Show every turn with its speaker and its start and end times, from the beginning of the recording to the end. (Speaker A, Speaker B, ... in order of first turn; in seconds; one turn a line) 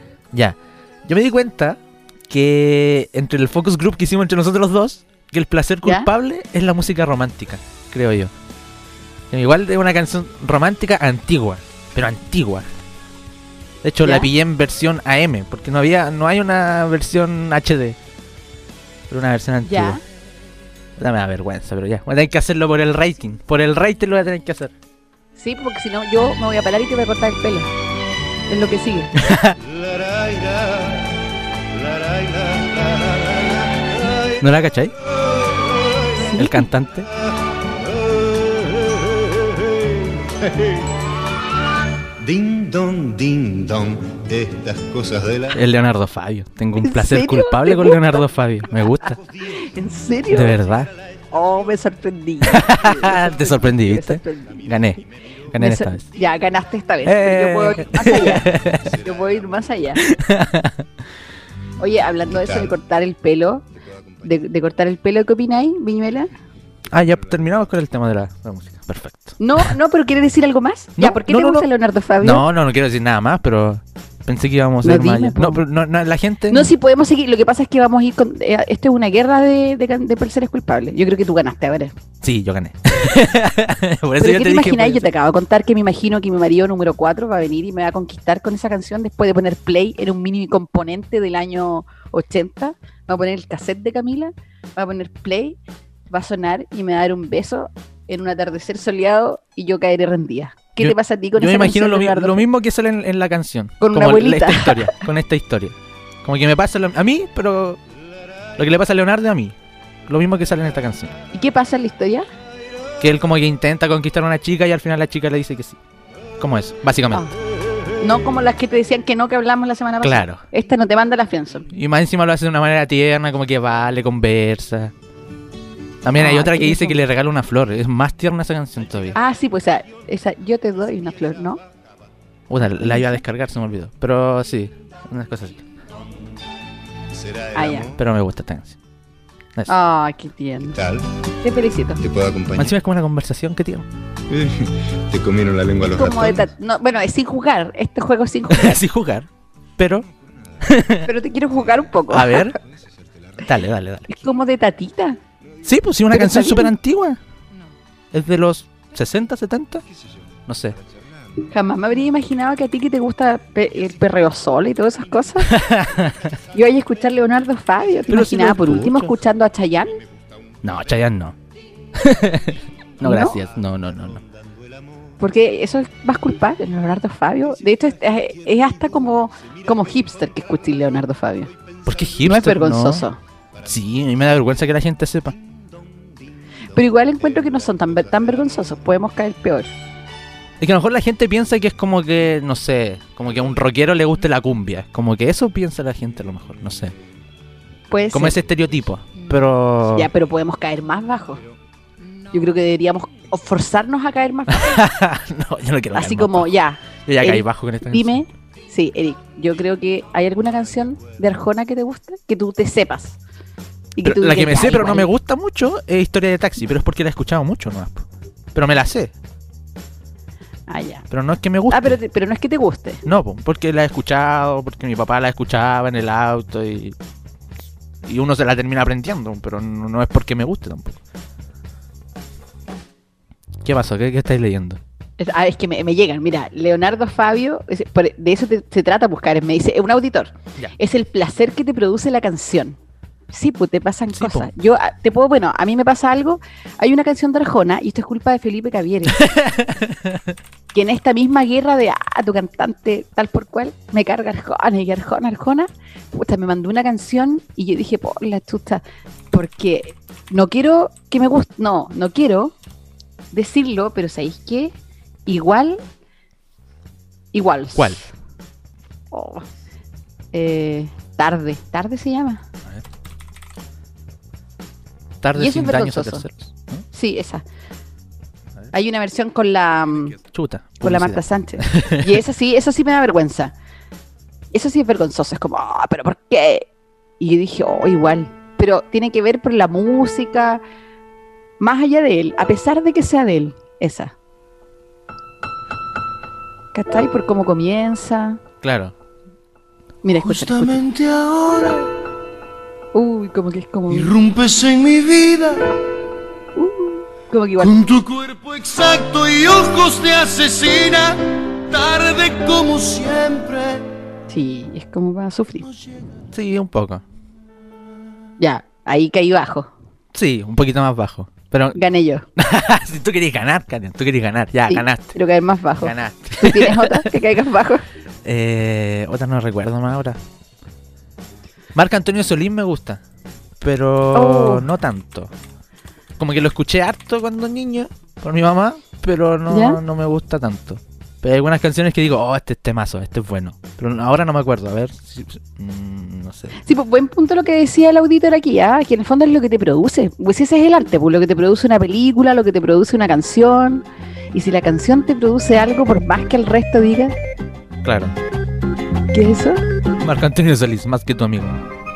Speaker A: 0.3-8.3
Speaker B: 5.8-6.1
Speaker A: 9.3-12.7
Speaker A: 13.8-18.0
Speaker B: 14.0-14.3
Speaker A: 19.1-20.0
Speaker B: 19.6-20.0
Speaker A: 21.0-24.7
Speaker B: 25.4-27.7
Speaker B: 28.5-29.1
Speaker A: 29.1-29.6
Speaker C: 29.6-31.1
Speaker C: 31.7-34.4
Speaker A: 34.4-34.9
Speaker B: 36.1-36.7
Speaker A: 36.4-37.1
Speaker C: 38.1-40.9
Speaker C: 42.2-45.6
Speaker A: 45.5-49.2
Speaker B: 46.8-48.2
Speaker B: 49.0-50.6
Speaker A: 50.3-50.9
Speaker B: 51.3-54.7
Speaker A: 52.4-56.0
Speaker B: 55.5-60.0
Speaker A: 57.0-59.0
Speaker C: 58.8-59.4
Speaker A: 60.0-60.8
Speaker B: 61.8-63.6
Speaker C: 62.3-62.7
Speaker B: 64.2-66.3
Speaker A: 66.9-69.7
Speaker B: 69.4-72.5
Speaker A: 71.0-71.7
Speaker A: 72.2-76.7
Speaker B: 74.8-75.6
Speaker B: 76.5-81.9
Speaker A: 82.2-85.1
Speaker B: 84.2-95.6
Speaker B: 96.1-102.5
Speaker A: 100.8-107.8
Speaker B: 103.8-105.0
Speaker A: 108.6-109.5
Speaker A: 110.1-111.1
Speaker B: 111.3-112.3
Speaker A: 113.0-115.8
Speaker A: 116.4-117.3
Speaker B: 118.0-121.7
Speaker A: 120.0-120.4
Speaker A: 121.7-124.9
Speaker A: 126.0-129.2
Speaker B: 126.2-127.0
Speaker B: 129.1-131.6
Speaker A: 132.5-135.6
Speaker B: 132.7-133.2
Speaker C: 137.1-138.0
Speaker B: 137.5-137.9
Speaker A: 137.9-138.8
Speaker B: 139.7-140.8
Speaker C: 140.7-141.1
Speaker B: 141.4-142.0
Speaker C: 142.0-142.7
Speaker A: 142.6-143.9
Speaker C: 144.3-146.4
Speaker B: 145.8-148.8
Speaker A: 148.5-150.1
Speaker A: 150.6-151.1
Speaker B: 151.0-152.6
Speaker A: 152.1-152.6
Speaker A: 153.4-154.1
Speaker B: 154.1-155.2
Speaker A: 155.6-157.2
Speaker B: 156.1-156.7
Speaker A: 158.1-159.8
Speaker A: 160.5-160.8
Speaker B: 161.4-165.6
Speaker A: 165.4-166.3
Speaker B: 166.5-170.0
Speaker A: 168.1-169.1
Speaker A: 170.6-171.3
Speaker A: 171.9-174.2
Speaker B: 173.0-173.4
Speaker B: 175.2-181.5
Speaker A: 181.8-183.1
Speaker B: 182.2-183.2
Speaker A: 183.6-185.3
Speaker B: 186.7-189.7
Speaker A: 190.6-196.9
Speaker B: 197.9-198.4
Speaker A: 198.1-200.1
Speaker B: 199.9-201.4
Speaker B: 202.3-204.9
Speaker A: 204.5-206.5
Speaker B: 205.9-213.2
Speaker A: 207.1-208.2
Speaker B: 213.9-215.1
Speaker A: 214.0-219.1
Speaker B: 220.7-221.1
Speaker A: 221.1-222.0
Speaker B: 221.7-223.0
Speaker A: 223.0-226.9
Speaker A: 228.0-231.0
Speaker A: 233.6-234.8
Speaker B: 235.2-242.8
Speaker B: 243.3-249.3
Speaker A: 244.1-244.5
Speaker A: 249.1-250.3
Speaker B: 250.7-262.5
Speaker B: 263.3-264.7
Speaker B: 265.2-265.8
Speaker B: 267.3-268.1
Speaker A: 267.7-268.0
Speaker B: 269.1-269.4
Speaker B: 270.3-272.4
Speaker A: 275.2-276.8
Speaker B: 275.3-276.2
Speaker B: 276.9-277.4
Speaker B: 278.7-280.1
Speaker A: 280.1-282.2
Speaker B: 280.8-283.5
Speaker B: 284.5-286.7
Speaker B: 287.2-290.6
Speaker B: 291.6-294.1
Speaker B: 296.7-298.4
Speaker A: 298.6-298.9
Speaker B: 300.0-300.8
Speaker D: 300.2-301.9
Speaker B: 302.9-304.1
Speaker D: 303.9-305.7
Speaker B: 306.6-307.7
Speaker D: 307.6-313.8
Speaker B: 314.3-315.7
Speaker A: 316.3-317.0
Speaker B: 318.4-319.7
Speaker A: 320.1-321.8
Speaker B: 321.7-322.2
Speaker A: 322.4-325.2
Speaker B: 324.7-327.8
Speaker A: 325.8-327.1
Speaker A: 328.2-330.2
Speaker A: 331.7-333.0
Speaker A: 333.6-335.3
Speaker B: 334.1-334.7
Speaker A: 336.2-346.6
Speaker B: 339.5-339.8
Speaker B: 346.6-357.1
Speaker A: 357.8-358.1
Speaker B: 359.1-359.6
Speaker A: 360.0-361.6